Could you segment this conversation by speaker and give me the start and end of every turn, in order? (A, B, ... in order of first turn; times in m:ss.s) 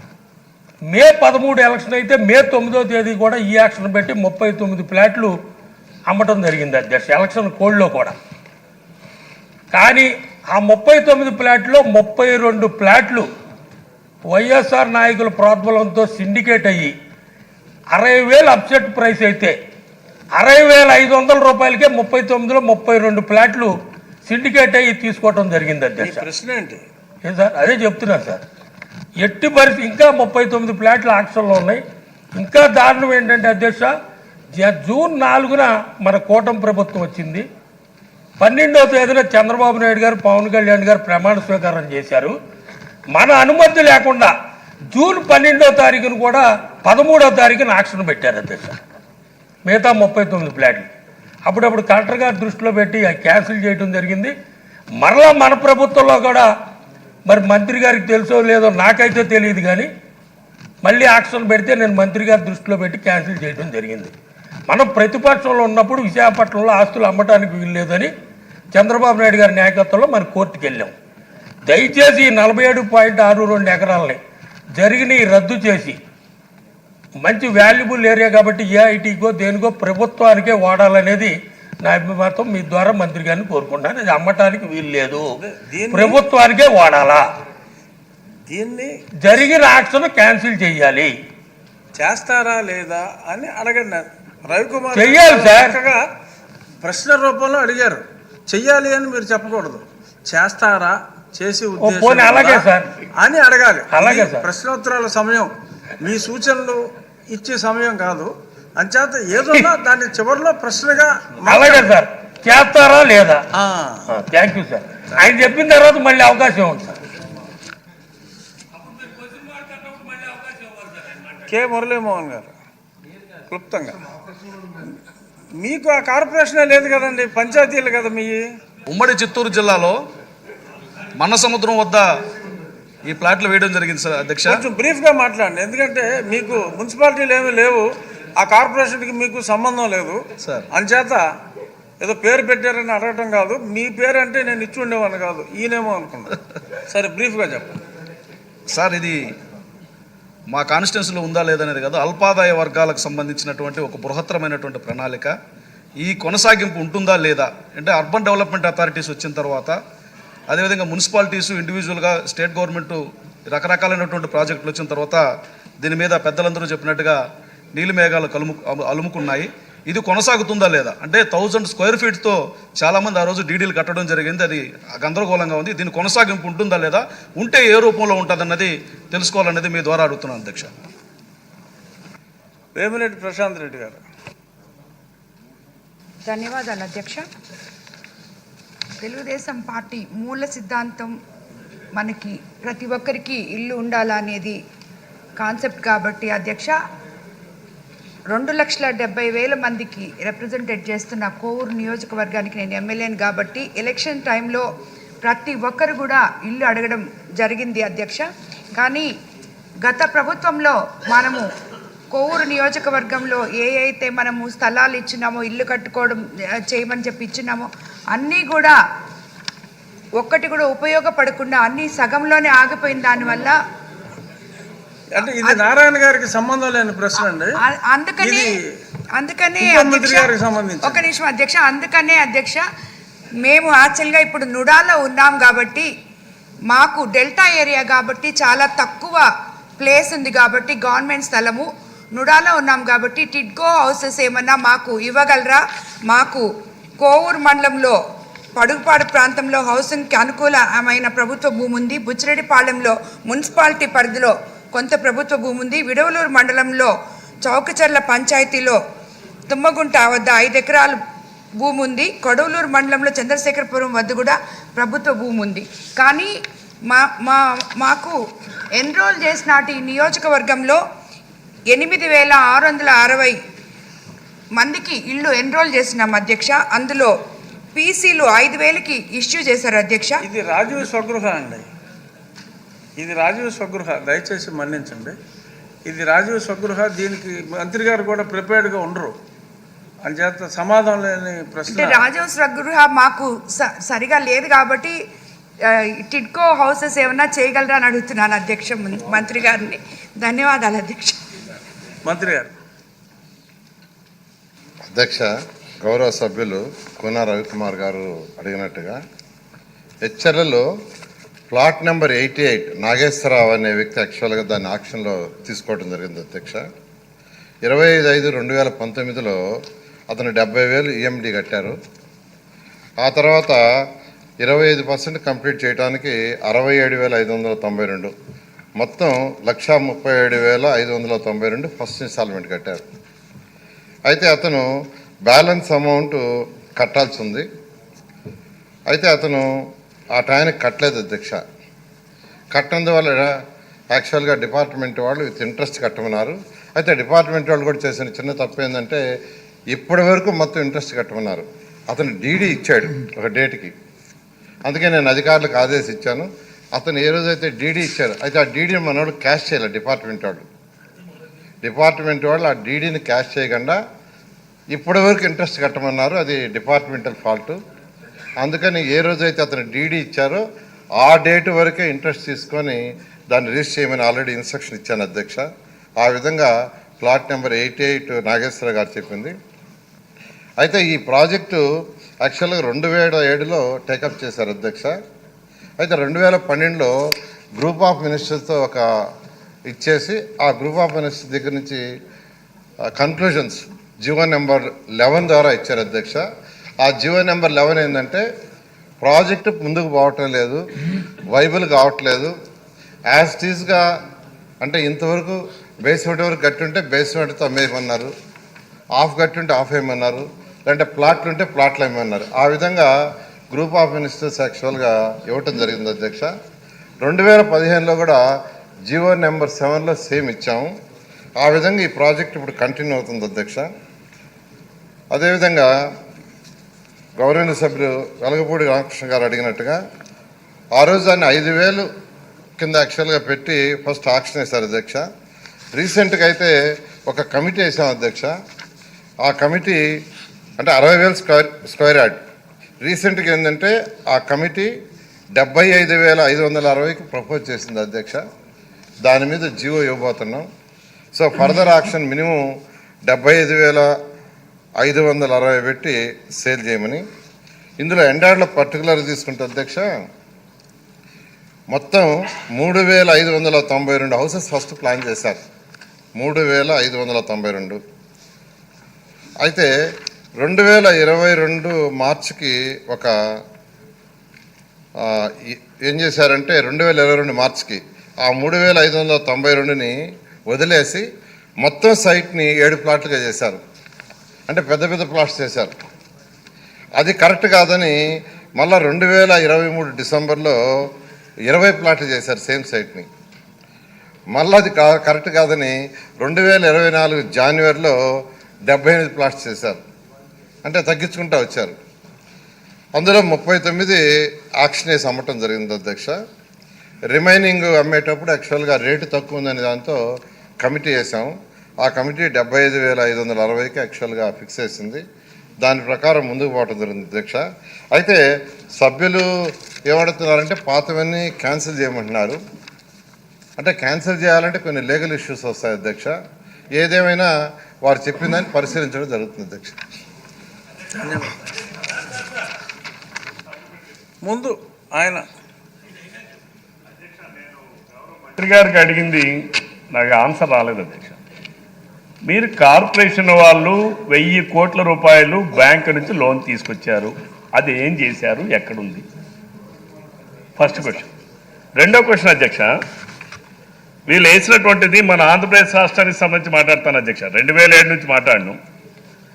0:00.9-0:05.3 A
0:06.1-0:08.1 A
0:09.7-0:13.2 A
0:14.3-0:16.9 A
0:17.9-0:19.6 A
0:20.4-0:23.7 A
0:24.2-0:26.2 A
0:26.0-0:26.8 B
0:27.2-0:28.4 A
0:29.2-0:31.8 A
0:32.4-0:33.9 A
0:34.5-0:37.4 A
0:38.4-0:42.3 A
0:43.1-0:44.3 A
0:44.9-0:48.8 A
0:49.7-0:50.9 A
0:51.4-0:54.3 A
0:55.0-0:56.5 A
0:57.3-0:59.9 A
1:00.8-1:04.1 A
1:04.7-1:08.1 A
1:08.7-1:10.9 A
1:11.7-1:14.2 A
1:14.8-1:16.0 A
1:17.2-1:25.3 A
1:25.4-1:26.2 B
1:25.9-1:27.2 A
1:28.5-1:28.9 B
1:29.2-1:31.1 A
1:31.9-1:36.0 B
1:34.9-1:35.8 A
1:36.8-1:42.6 B
1:41.8-1:42.9 A
1:43.2-1:45.5 B
1:43.9-1:44.5 A
1:46.0-1:51.9 B
1:51.4-1:53.4 A
1:53.5-1:54.1 B
1:54.1-1:57.0 A
1:59.6-2:00.5 A
2:01.5-2:02.5 B
2:03.5-2:04.0 B
2:05.6-2:08.5 B
2:08.9-2:10.0 C
2:11.2-2:12.1 C
2:13.0-2:14.6 C
2:14.5-2:20.2 B
2:20.4-2:20.7 C
2:20.7-2:21.2 B
2:22.0-2:26.3 B
2:26.9-2:27.8 B
2:28.7-2:29.3 C
2:30.5-2:35.3 C
2:36.0-2:39.8 C
2:40.5-2:45.2 C
2:45.8-2:47.2 C
2:47.7-3:00.7 C
3:02.7-3:04.0 B
3:06.2-3:07.2 D
3:09.0-3:11.1 D
3:12.0-3:14.6 D
3:15.4-3:16.7 D
3:18.3-3:24.6 D
3:25.2-3:29.1 D
3:29.8-3:31.5 D
3:32.1-3:38.7 D
3:40.2-3:43.6 D
3:45.1-3:47.5 B
3:45.2-3:45.6 D
3:47.6-3:48.5 D
3:48.2-3:48.6 B
3:49.2-3:52.6 D
3:49.6-3:51.0 B
3:53.4-3:55.9 D
3:56.7-3:59.2 D
3:59.8-4:06.4 D
4:07.0-4:08.0 D
4:08.6-4:16.9 D
4:17.4-4:18.8 D
4:19.5-4:21.0 D
4:21.6-4:26.3 D
4:26.9-4:28.2 D
4:28.8-4:30.8 D
4:31.7-4:33.4 D
4:34.6-4:37.1 D
4:37.7-4:40.2 D
4:40.2-4:41.7 B
4:43.0-4:45.2 B
4:45.8-4:49.2 B
4:50.0-4:52.1 B
4:51.7-4:54.9 D
4:55.7-5:01.2 D
5:02.0-5:02.5 B
5:04.9-5:05.3 E
5:05.8-5:09.0 E
5:10.0-5:10.7 E
5:11.5-5:16.6 E
5:17.6-5:19.4 E
5:20.1-5:21.8 E
5:23.0-5:23.6 E
5:24.4-5:28.1 E
5:28.8-5:32.8 E
5:34.1-5:34.7 E
5:35.3-5:36.2 E
5:36.8-5:37.5 E
5:38.9-5:39.5 E
5:40.2-5:41.4 E
5:42.5-5:43.3 E
5:43.9-5:49.0 E
5:49.7-5:53.7 E
5:54.6-6:00.5 E
6:01.6-6:03.8 E
6:04.7-6:07.6 E
6:08.4-6:10.4 E
6:11.0-6:15.4 E
6:16.0-6:19.3 E
6:20.6-6:21.6 E
6:22.2-6:25.0 E
6:25.8-6:26.9 E
6:27.6-6:28.8 E
6:29.7-6:31.8 E
6:33.0-6:36.2 E
6:36.8-6:38.2 E
6:39.0-6:40.6 E
6:41.3-6:42.3 E
6:43.1-6:43.8 E
6:44.6-6:48.1 E
6:49.0-6:52.9 E
6:53.5-6:56.3 E
6:57.0-6:58.2 E
6:58.9-7:00.7 E
7:01.4-7:03.7 E
7:05.1-7:05.7 E
7:07.2-7:09.8 E
7:10.8-7:11.8 E
7:12.6-7:15.0 E
7:15.7-7:16.5 E
7:17.0-7:18.3 E
7:19.2-7:19.8 E
7:20.6-7:22.2 E
7:22.8-7:24.7 E
7:25.4-7:28.2 E
7:29.0-7:30.5 E
7:31.1-7:32.4 E
7:33.1-7:33.9 E
7:34.8-7:37.0 E
7:37.8-7:39.9 E
7:41.7-7:45.4 E
7:46.2-7:47.8 E
7:49.4-7:49.7 E
7:50.4-7:53.1 E
7:55.0-7:59.9 E
8:00.5-8:01.0 E
8:01.6-8:03.6 E
8:04.5-8:05.7 E
8:07.0-8:08.0 E
8:08.6-8:10.6 E
8:11.5-8:13.1 E
8:14.3-8:18.0 E
8:18.7-8:19.8 E
8:20.6-8:21.8 E
8:23.0-8:24.0 E
8:24.6-8:26.2 E
8:27.1-8:30.0 E
8:30.6-8:35.0 E
8:35.6-8:37.4 E
8:37.9-8:38.2 E
8:38.8-8:39.2 E
8:39.9-8:42.4 E
8:43.6-8:46.1 E
8:46.8-8:47.3 E
8:47.8-8:49.8 E
8:51.0-8:51.3 B
8:54.2-8:55.2 B
8:58.2-8:59.3 F
8:59.9-9:01.2 F
9:02.3-9:09.0 F
9:10.6-9:11.1 F
9:11.8-9:12.7 F
9:14.1-9:18.6 F